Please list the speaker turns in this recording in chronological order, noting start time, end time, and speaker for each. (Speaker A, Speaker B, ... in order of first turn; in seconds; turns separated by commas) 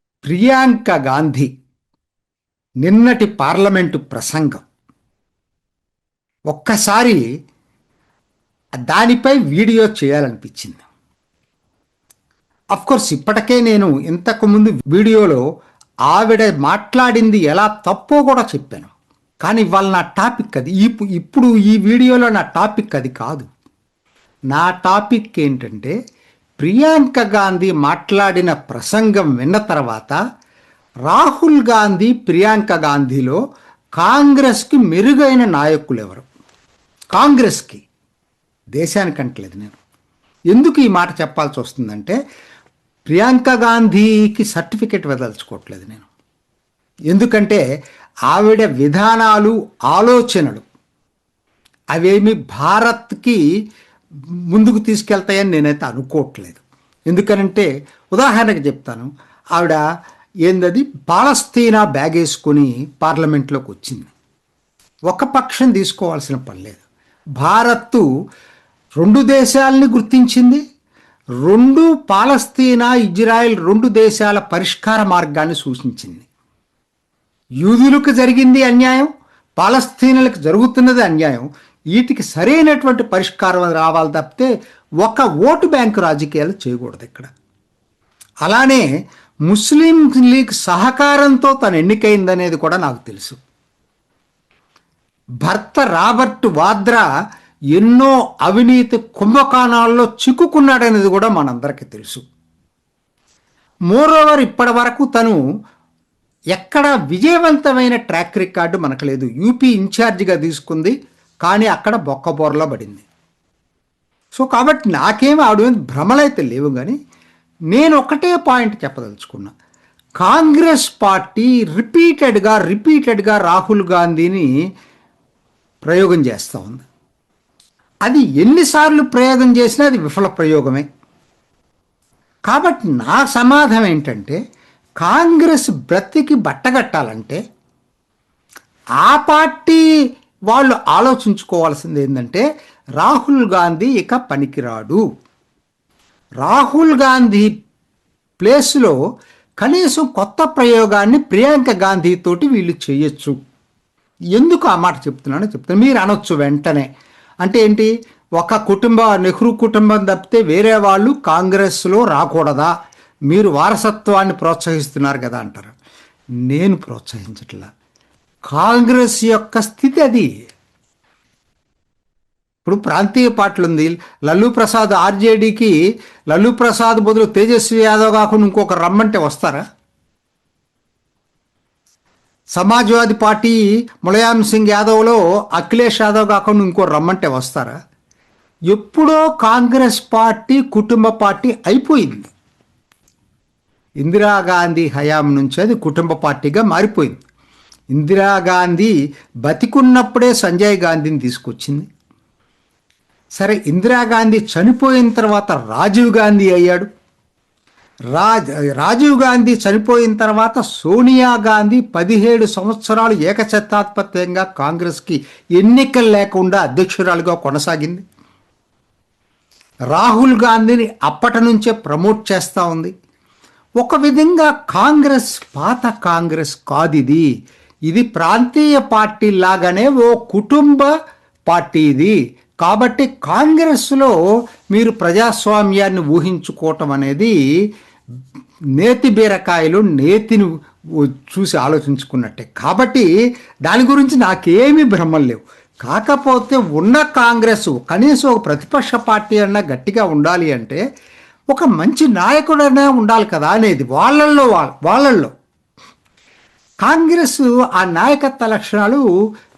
Speaker A: 0.2-1.5, Speaker A: 2.8-4.6, Speaker A: 6.5-7.2, Speaker A: 8.8-10.8, Speaker A: 12.7-15.4, Speaker A: 16.1-18.9, Speaker A: 19.4-23.5, Speaker A: 24.5-25.9, Speaker A: 26.6-30.2, Speaker A: 31.1-33.4, Speaker A: 34.0-36.2, Speaker A: 37.1-37.8, Speaker A: 38.8-39.7, Speaker A: 40.5-42.2, Speaker A: 43.1-46.0, Speaker A: 47.1-47.6, Speaker A: 48.3-50.6, Speaker A: 51.9-53.4, Speaker A: 54.5-59.8, Speaker A: 60.5-64.1, Speaker A: 65.1-66.8, Speaker A: 67.4-68.0, Speaker A: 69.0-70.6, Speaker A: 71.4-76.2, Speaker A: 77.6-84.5, Speaker A: 85.0-87.3, Speaker A: 88.4-88.9, Speaker A: 89.5-93.4, Speaker A: 95.4-97.0, Speaker A: 97.7-102.2, Speaker A: 103.9-105.4, Speaker A: 106.5-113.0, Speaker A: 114.4-117.0, Speaker A: 117.7-119.5, Speaker A: 120.2-124.5, Speaker A: 125.8-126.8, Speaker A: 128.1-130.8, Speaker A: 132.5-134.4, Speaker A: 135.0-137.4, Speaker A: 139.0-139.8, Speaker A: 140.5-142.4, Speaker A: 143.0-145.0, Speaker A: 146.4-147.5, Speaker A: 148.4-149.0, Speaker A: 149.6-153.4, Speaker A: 154.3-156.9, Speaker A: 157.4-162.7, Speaker A: 163.3-165.7, Speaker A: 166.5-167.7, Speaker A: 168.5-170.3, Speaker A: 172.6-175.7, Speaker A: 176.3-179.6, Speaker A: 182.6-187.8, Speaker A: 188.7-192.3, Speaker A: 194.0-197.2, Speaker A: 197.9-198.9, Speaker A: 199.4-201.9, Speaker A: 203.4-206.9, Speaker A: 208.1-218.0, Speaker A: 219.9-222.9, Speaker A: 223.8-227.3, Speaker A: 227.9-230.9, Speaker A: 231.5-234.1, Speaker A: 234.7-237.3, Speaker A: 238.8-243.1, Speaker A: 243.7-250.8, Speaker A: 251.5-255.3, Speaker A: 256.8-259.0